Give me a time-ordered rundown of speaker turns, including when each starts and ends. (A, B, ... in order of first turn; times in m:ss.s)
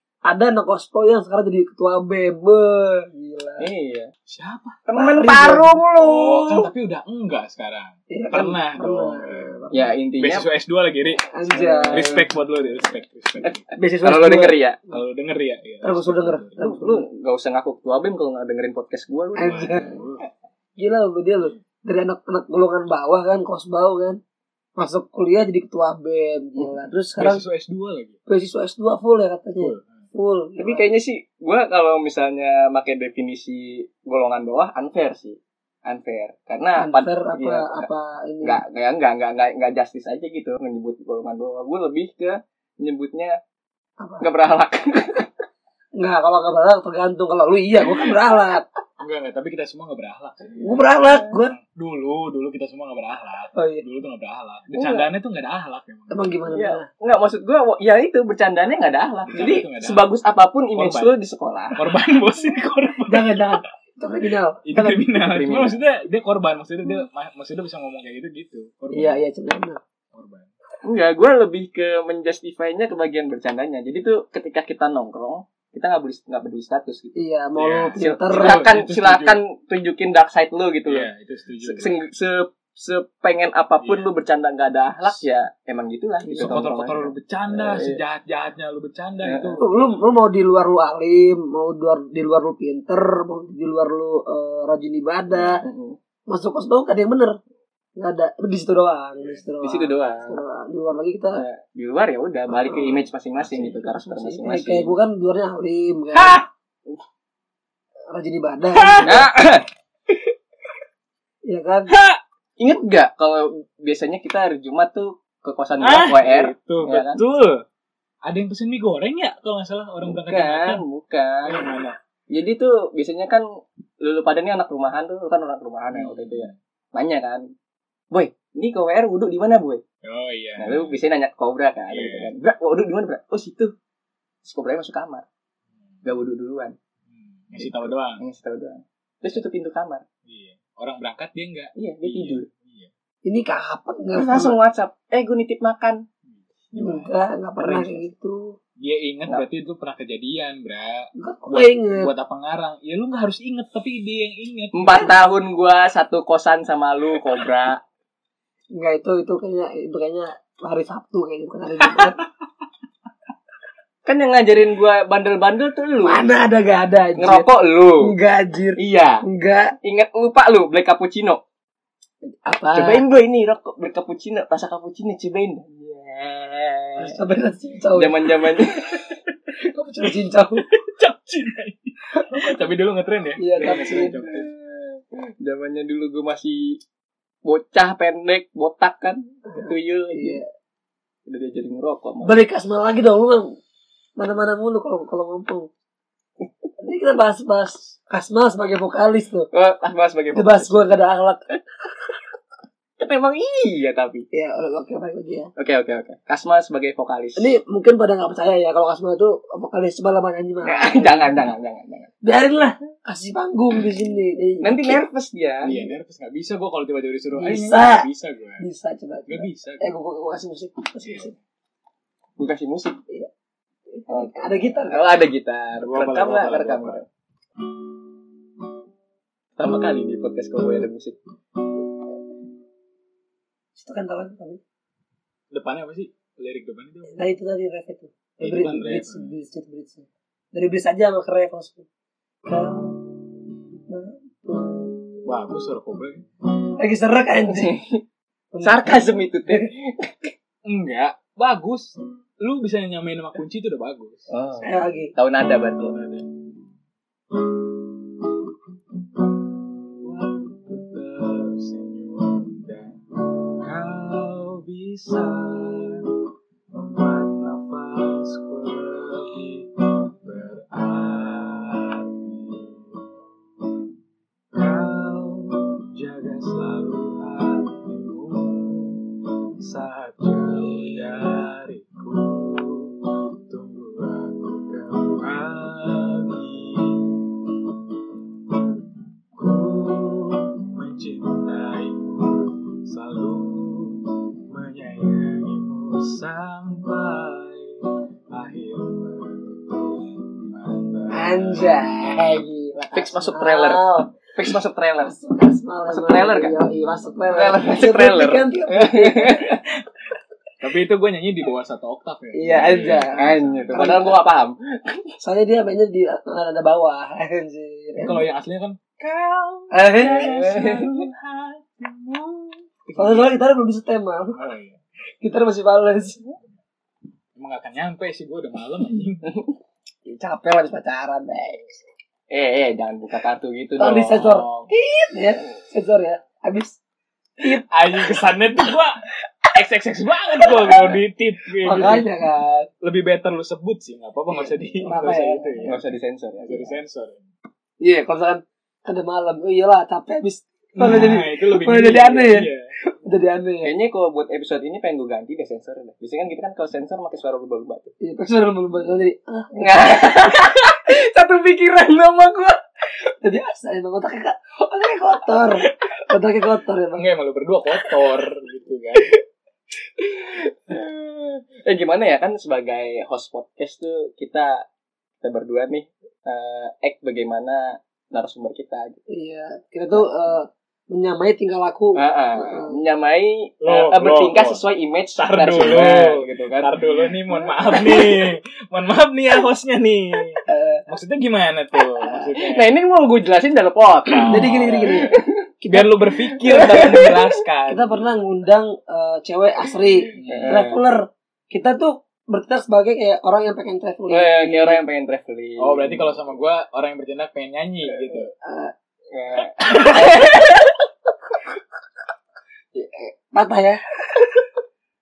0:00.2-0:03.7 A
0:03.6-0:04.1 B
0:04.3-0:04.8 C
0:04.9-0:06.7 B
0:05.0-0:05.7 A
0:05.9-0:13.6 C
0:08.1-0:09.8 A
0:09.7-0:10.5 B
0:11.3-0:12.3 A
0:11.7-0:12.2 B
0:13.4-0:14.8 B
0:13.8-0:14.6 A
0:14.9-0:16.6 C
0:15.8-0:17.0 A
0:16.6-0:19.8 B
0:19.4-0:20.0 A
0:19.4-0:20.2 C
0:20.8-0:24.2 A
0:24.8-0:27.4 A
0:27.2-0:28.2 C
0:28.3-0:30.9 A
0:29.6-0:30.0 C
0:30.6-0:37.9 B
0:36.8-0:38.6 A
0:38.4-0:43.4 B
0:44.0-0:44.2 A
0:44.2-0:45.3 B
0:46.0-0:48.7 A
0:49.0-0:56.4 C
0:50.6-0:51.6 A
0:53.5-0:53.8 A
0:54.7-0:55.1 B
0:56.1-0:56.8 A
0:56.5-1:01.8 B
0:59.3-1:00.1 C
1:00.8-1:01.1 C
1:01.7-1:03.5 C
1:03.1-1:05.0 A
1:04.6-1:09.2 C
1:05.2-1:05.8 B
1:08.9-1:09.8 A
1:10.1-1:10.5 C
1:10.8-1:17.2 B
1:17.2-1:18.6 A
1:17.6-1:19.4 C
1:17.9-1:21.1 B
1:20.8-1:22.0 C
1:21.6-1:28.0 B
1:23.8-1:24.1 C
1:26.2-1:26.7 A
1:26.4-1:30.0 C
1:29.2-1:29.6 B
1:29.6-1:35.6 A
1:35.3-1:36.0 B
1:36.3-1:37.4 A
1:38.0-1:41.4 A
1:39.6-1:40.4 B
1:41.4-1:44.9 B
1:43.4-1:43.9 C
1:44.0-1:46.4 A
1:48.1-1:49.2 A
1:48.7-1:49.3 C
1:49.0-1:50.2 B
1:51.4-1:51.9 A
1:51.9-1:52.2 C
1:52.6-1:57.2 B
1:55.8-1:57.6 C
1:58.2-2:00.8 C
2:00.0-2:01.6 B
2:01.4-2:02.0 C
2:02.3-2:03.4 B
2:04.0-2:07.4 B
2:05.9-2:06.6 C
2:08.1-2:09.8 B
2:10.0-2:11.0 C
2:10.6-2:13.7 B
2:11.9-2:12.3 C
2:14.4-2:15.2 B
2:15.8-2:16.0 C
2:16.0-2:16.8 B
2:17.1-2:18.2 C
2:17.6-2:20.0 B
2:20.2-2:22.9 C
2:21.8-2:22.5 B
2:23.2-2:24.6 A
2:24.1-2:26.0 B
2:26.2-2:27.1 C
2:26.7-2:28.6 A
2:27.6-2:28.1 B
2:28.8-2:35.1 C
2:31.2-2:32.1 A
2:34.7-2:37.8 B
2:38.7-2:42.2 A
2:44.0-2:46.2 B
2:46.0-2:47.5 A
2:47.2-2:48.1 B
2:48.0-2:49.7 A
2:48.8-2:49.2 B
2:49.8-2:51.4 B
2:52.3-2:53.0 A
2:52.7-2:57.2 B
2:57.0-2:58.7 A
2:57.9-2:59.0 B
2:59.6-3:00.6 A
3:00.7-3:04.5 C
3:03.4-3:04.2 A
3:03.7-3:06.8 B
3:07.4-3:10.4 B
3:09.5-3:10.4 A
3:11.3-3:12.4 B
3:12.2-3:13.5 A
3:14.2-3:15.7 A
3:16.8-3:19.5 A
3:19.5-3:21.0 B
3:20.3-3:21.4 A
3:23.0-3:24.2 B
3:24.3-3:25.5 A
3:25.6-3:27.6 B
3:27.4-3:31.2 A
3:30.6-3:32.1 B
3:32.2-3:35.0 A
3:34.6-3:35.7 B
3:35.6-3:38.7 C
3:37.4-3:38.0 A
3:38.6-3:41.3 A
3:39.3-3:39.9 C
3:41.0-3:41.3 C
3:42.4-3:43.0 B
3:43.9-3:45.1 A
3:44.1-3:47.0 B
3:45.8-3:47.0 C
3:49.6-3:51.2 B
3:53.8-3:54.6 A
3:55.5-3:57.3 C
3:57.1-4:01.8 A
3:58.4-3:59.3 C
4:02.4-4:03.2 A
4:03.9-4:04.9 A
4:05.2-4:06.2 C
4:06.8-4:07.8 A
4:07.5-4:08.0 B
4:08.5-4:09.7 A
4:08.6-4:10.3 B
4:10.6-4:15.0 C
4:14.3-4:16.0 B
4:14.6-4:15.1 A
4:15.8-4:16.3 C
4:19.8-4:23.0 C
4:23.6-4:33.0 C
4:34.5-4:47.7 C
4:49.3-5:03.2 C
5:01.1-5:04.2 A
5:02.9-5:05.1 B
5:05.0-5:09.4 A
5:05.9-5:06.6 B
5:07.3-5:09.6 B
5:09.5-5:09.8 C
5:10.6-5:13.9 C
5:12.3-5:14.2 A
5:13.2-5:15.1 B
5:15.2-5:18.2 A
5:18.0-5:23.4 C
5:19.7-5:20.5 A
5:20.0-5:21.1 B
5:23.0-5:24.4 A
5:24.3-5:24.8 C
5:25.2-5:26.2 A
5:27.3-5:29.3 C
5:30.0-5:31.8 A
5:32.3-5:34.2 B
5:33.8-5:36.8 A
5:33.8-5:34.7 C
5:37.4-5:37.6 A
5:37.6-5:42.1 C
5:41.6-5:42.7 A
5:42.8-5:47.2 C
5:44.8-5:45.6 A
5:45.6-5:46.7 B
5:47.8-5:53.7 A
5:50.8-5:52.7 C
5:53.6-5:57.9 B
5:58.0-6:00.3 A
5:59.6-6:02.6 B
6:03.2-6:07.0 A
6:06.9-6:09.1 C
6:10.0-6:14.6 B
6:15.2-6:19.0 B
6:19.1-6:22.8 A
6:22.0-6:26.9 B
6:23.6-6:24.6 C
6:25.2-6:32.7 C
6:27.6-6:28.1 B
6:30.5-6:30.8 A
6:32.3-6:35.3 B
6:34.0-6:38.1 C
6:34.3-6:35.9 A
6:36.3-6:37.4 B
6:37.7-6:44.8 A
6:40.2-6:40.8 C
6:40.2-6:40.8 B
6:44.1-6:46.1 B
6:45.6-6:48.3 C
6:48.4-6:48.7 A
6:49.1-6:50.7 B
6:49.7-6:50.0 A
6:52.8-6:54.4 A